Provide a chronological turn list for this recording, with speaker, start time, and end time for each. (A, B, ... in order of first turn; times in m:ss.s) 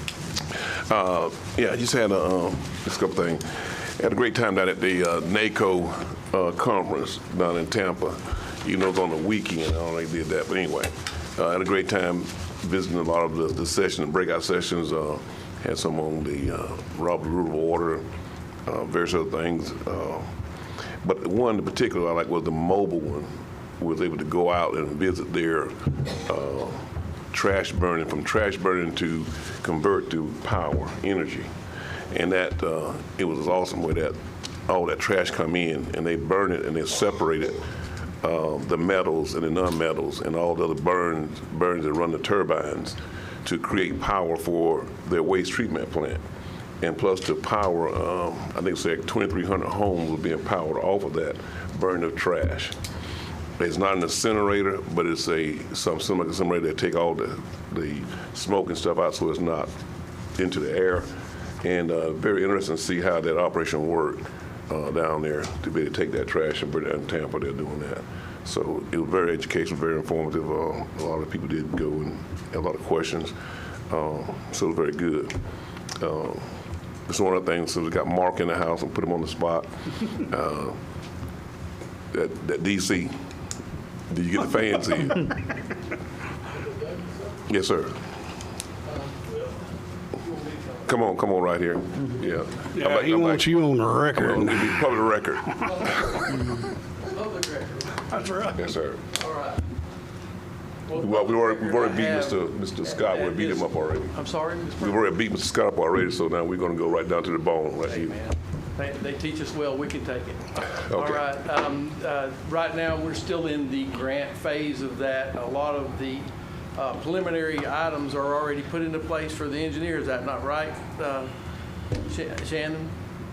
0:00.9-0:18.0 A
0:18.7-0:20.3 A
0:21.0-0:31.5 A
0:32.1-0:37.7 A
0:38.2-0:46.2 A
0:46.8-0:52.8 A
0:53.6-0:59.7 A
1:00.4-1:01.1 A
1:01.6-1:13.3 A
1:13.9-1:15.3 A
1:16.0-1:16.5 A
1:17.1-1:20.8 A
1:22.1-1:23.2 A
1:24.1-1:25.3 A
1:27.5-1:28.0 A
1:28.9-1:29.4 B
1:30.2-1:30.9 B
1:30.9-1:33.6 A
1:32.7-1:34.9 C
1:34.1-1:35.6 A
1:35.7-1:36.0 B
1:37.1-1:38.1 B
1:38.1-1:38.6 C
1:38.5-1:39.0 A
1:39.1-1:39.6 B
1:40.9-1:45.0 B
1:41.0-1:44.1 A
1:44.8-1:48.2 A
1:47.9-2:01.3 B
1:50.8-1:51.2 A
2:02.0-2:02.9 B